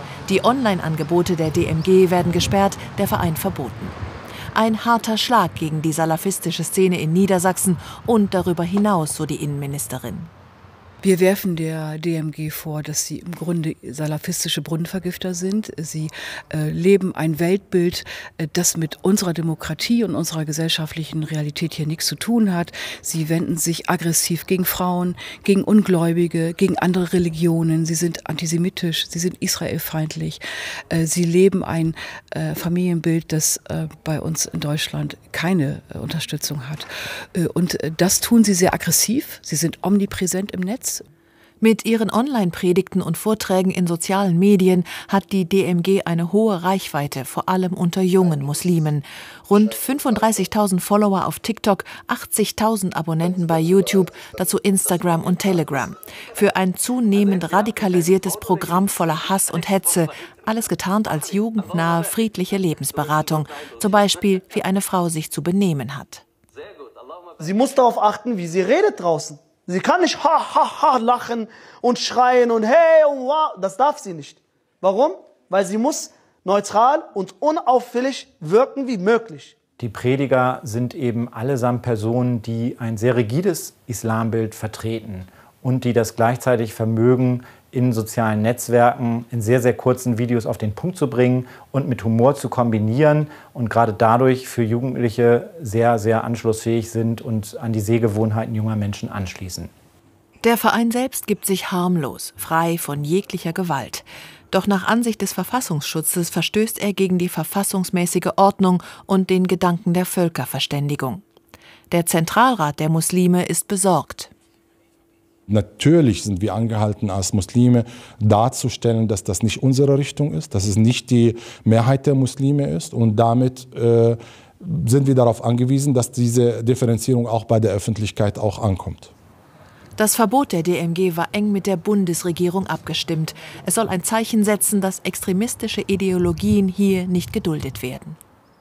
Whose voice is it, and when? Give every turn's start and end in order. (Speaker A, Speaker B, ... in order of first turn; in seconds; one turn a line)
Speaker A: 0.2-3.9
Speaker A: 4.5-10.3
Speaker B: 11.0-41.0
Speaker A: 41.6-66.2
Speaker C: 67.4-79.5
Speaker D: 79.8-99.7
Speaker A: 100.4-111.2
Speaker A: 111.9-114.3
Speaker E: 115.5-129.1
Speaker A: 130.0-138.2